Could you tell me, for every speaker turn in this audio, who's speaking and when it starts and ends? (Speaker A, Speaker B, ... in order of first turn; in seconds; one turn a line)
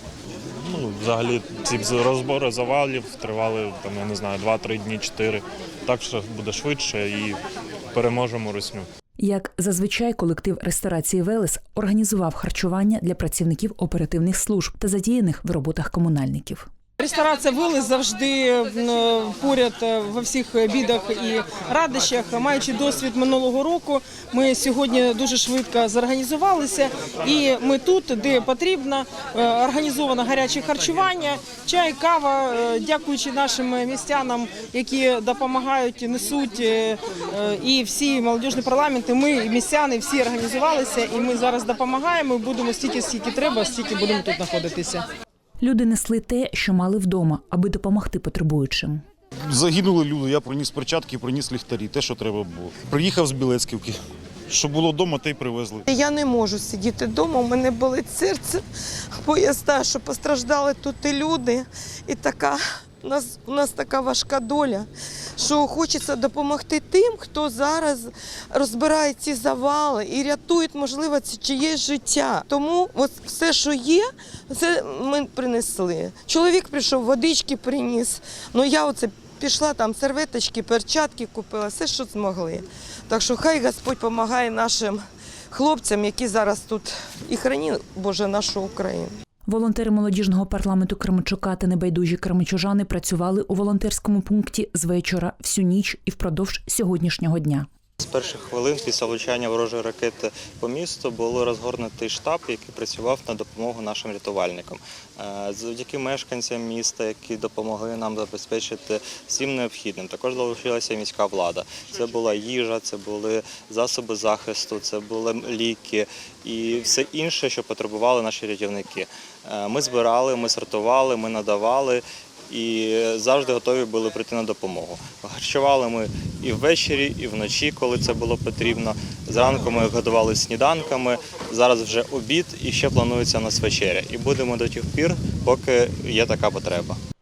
Speaker A: 0.5-7.4
Speaker A: 7.9-8.9
Speaker B: 9.2-16.6
Speaker C: 17.0-45.0
Speaker B: 45.6-49.0
Speaker D: 49.5-55.8
Speaker E: 55.9-58.6
Speaker E: 59.2-89.1
Speaker B: 89.5-97.7
Speaker F: 98.0-137.0